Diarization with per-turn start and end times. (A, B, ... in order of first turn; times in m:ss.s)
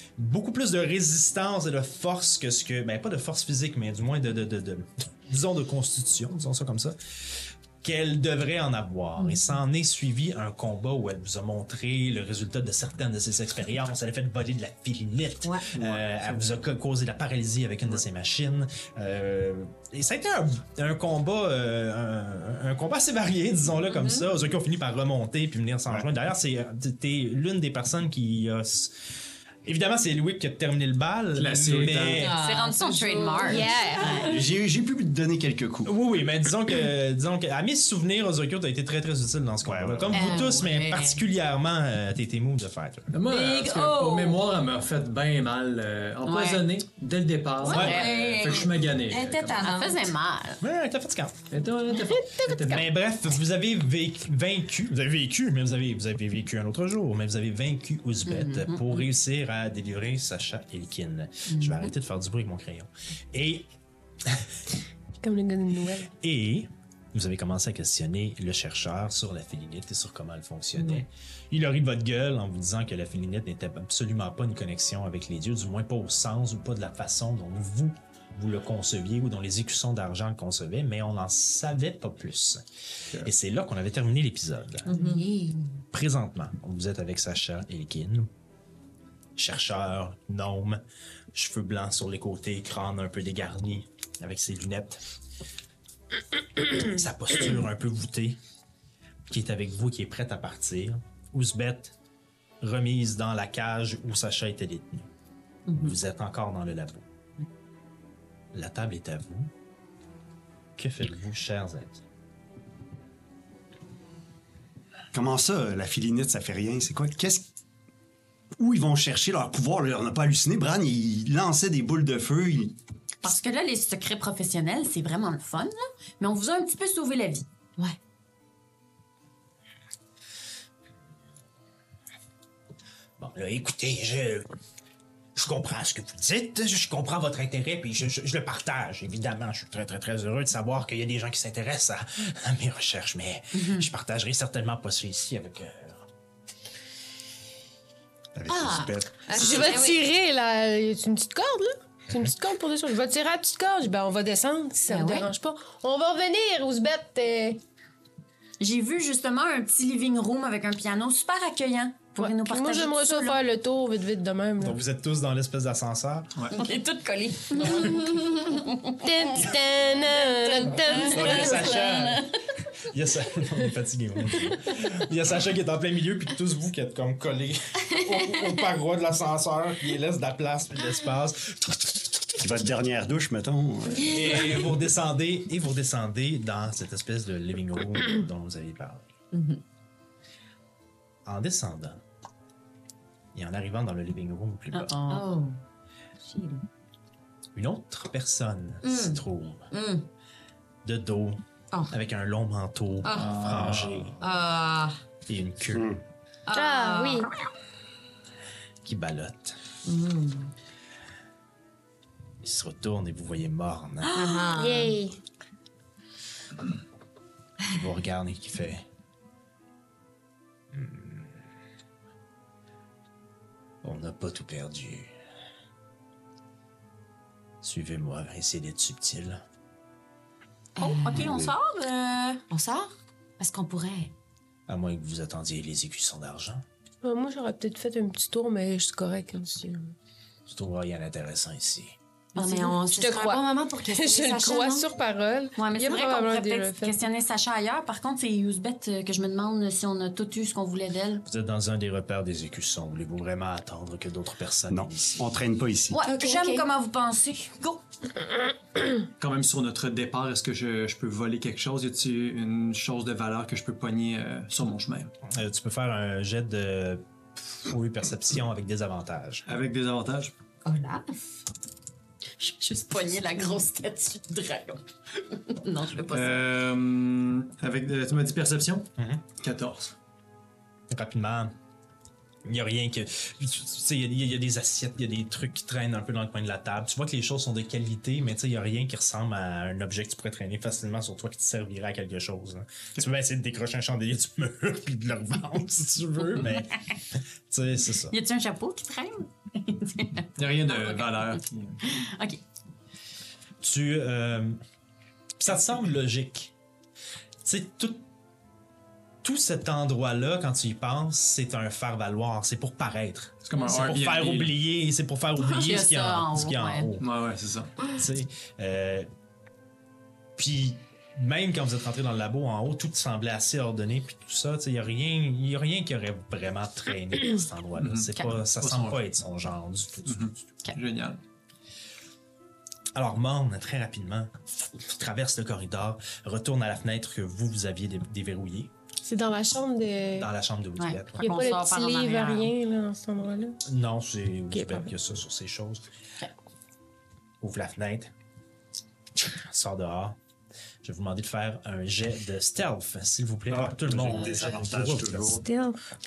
0:00.2-0:28.9 A
0:09.2-0:09.5 B
0:15.7-0:16.5 C
0:23.9-0:24.3 B
0:29.6-0:32.3 A
0:31.4-0:32.3 C
0:32.2-0:34.4 B
0:32.3-0:34.2 D
0:33.3-0:34.4 E
0:34.1-0:35.9 F
0:35.8-0:43.1 A
0:39.6-0:40.2 F
0:40.1-0:41.2 B
0:43.1-0:49.6 C
0:43.3-0:44.4 B
0:46.2-0:46.6 D
0:47.6-0:50.1 B
0:47.6-0:48.4 D
0:47.7-0:48.0 A
0:49.6-0:50.6 D
0:50.6-0:51.4 A
0:51.5-0:52.9 C
0:52.0-0:52.4 E
0:52.6-1:03.7 A
0:58.3-0:59.1 D
1:01.5-1:01.9 D
1:05.2-1:06.1 E
1:06.2-1:24.9 A
1:10.7-1:11.0 B
1:24.9-1:25.8 B
1:25.9-1:28.3 A
1:29.4-1:30.8 A
1:31.3-1:35.0 A
1:36.7-1:38.4 A
1:39.3-1:41.9 A
1:42.6-1:45.1 A
1:45.7-1:46.0 B
1:45.7-1:47.0 A
1:48.5-1:49.5 A
1:50.8-1:52.0 A
1:55.1-1:57.5 F
1:58.6-2:02.8 F
2:03.2-2:07.4 D
2:13.2-2:14.5 A
2:15.4-2:26.0 A
2:23.5-2:23.9 D
2:28.3-2:29.6 F
2:28.4-2:30.0 B
2:29.3-2:37.6 E
2:34.9-2:35.3 B
2:35.0-2:35.2 D
2:38.6-2:43.4 D
2:42.2-2:44.8 E
2:44.6-2:46.3 A
2:46.5-2:48.6 B
2:46.5-2:48.0 D
2:49.0-2:51.8 E
2:50.6-2:52.2 D
2:50.9-2:52.1 B
2:51.1-2:52.3 A
2:52.9-3:02.0 A
3:02.4-3:04.7 F
3:04.0-3:09.1 A
3:09.3-3:09.6 B
3:11.2-3:12.0 A
3:13.3-3:14.9 A
3:14.7-3:15.3 D
3:15.1-3:15.6 B
3:16.2-3:16.6 B
3:17.5-3:19.7 A
3:18.8-3:20.1 B
3:20.8-3:24.2 A
3:23.0-3:25.0 B
3:25.3-3:25.9 A
3:25.7-3:26.0 F
3:26.4-3:27.3 B
3:26.5-3:27.3 E
3:28.8-3:29.6 A
3:29.8-3:30.5 B
3:32.4-3:34.1 A
3:34.1-3:35.0 B
3:34.5-3:35.2 E
3:37.7-3:38.8 A
3:40.7-3:41.4 A
3:43.8-3:45.1 A
3:47.6-3:49.4 A
3:50.8-3:51.2 B
3:50.8-3:52.4 D
3:51.1-3:51.5 A
3:52.5-3:54.1 B
3:54.7-3:56.6 A
3:57.0-3:59.9 E
4:00.5-4:02.0 A
4:02.3-4:02.8 D
4:02.3-4:04.9 B
4:02.9-4:06.9 E
4:05.6-4:11.2 D
4:11.2-4:15.2 A
4:14.7-4:16.0 F
4:15.9-4:17.8 D
4:16.0-4:16.6 B
4:19.2-4:25.1 C
4:25.2-4:29.4 A
4:29.5-4:30.3 C
4:30.6-4:31.1 B
4:32.4-4:36.4 D
4:36.1-4:38.9 C
4:39.0-4:39.2 A
4:39.4-4:40.0 C
4:40.9-4:41.5 A
4:42.4-4:58.2 A
4:58.1-5:02.4 D
5:00.4-5:01.8 C
5:03.6-5:04.6 A
5:05.4-5:06.5 A
5:07.4-5:08.0 A
5:09.2-5:17.0 A
5:13.4-5:14.5 C
5:15.4-5:16.9 D
5:17.0-5:17.7 C
5:17.8-5:18.0 B
5:17.9-5:19.1 A
5:20.4-5:30.3 A
5:27.8-5:29.0 C
5:30.0-5:31.2 C
5:32.9-5:38.7 A
5:39.0-5:40.3 E
5:40.2-5:41.4 A
5:40.8-5:42.5 D
5:41.2-5:43.6 E
5:43.6-5:45.8 A
5:44.5-5:44.9 E
5:47.4-5:48.1 A
5:49.2-5:50.2 A
5:50.8-5:55.4 A
5:53.5-5:55.4 F
5:54.0-5:54.6 C
5:55.4-5:55.8 E